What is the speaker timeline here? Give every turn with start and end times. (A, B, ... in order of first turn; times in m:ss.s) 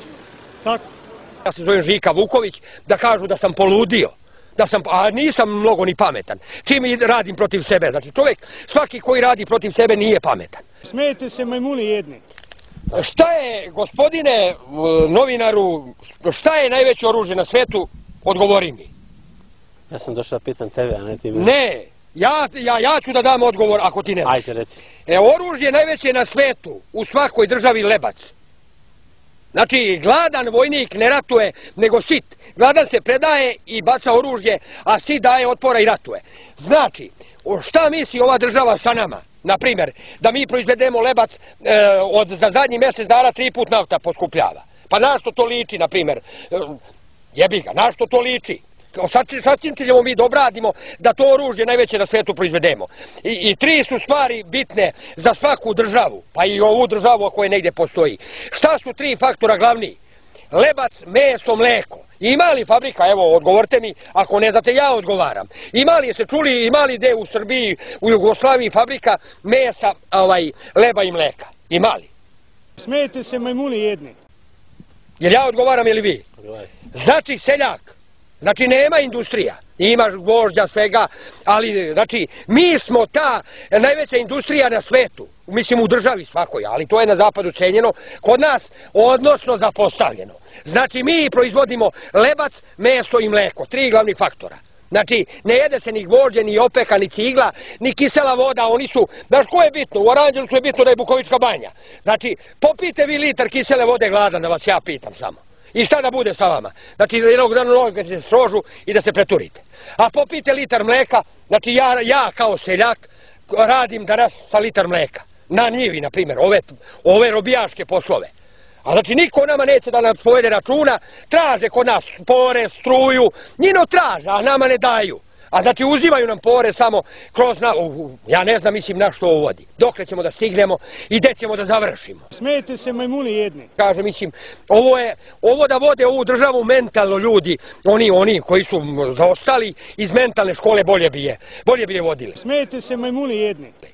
0:01.4-0:10.6 A
0:10.8-0:12.2 B
0:12.9-0:18.9 A
0:19.9-0:21.5 C
0:21.3-0:24.4 A
0:24.2-0:24.8 C
0:25.0-0:28.3 A
0:29.5-0:46.8 A
0:47.3-1:00.0 A
1:00.5-1:12.1 A
1:12.8-1:14.1 B
1:15.2-1:16.2 A
1:16.9-1:58.3 A
1:58.8-2:12.3 A
2:12.3-2:13.7 B
2:13.8-2:22.4 A
2:22.4-2:23.7 B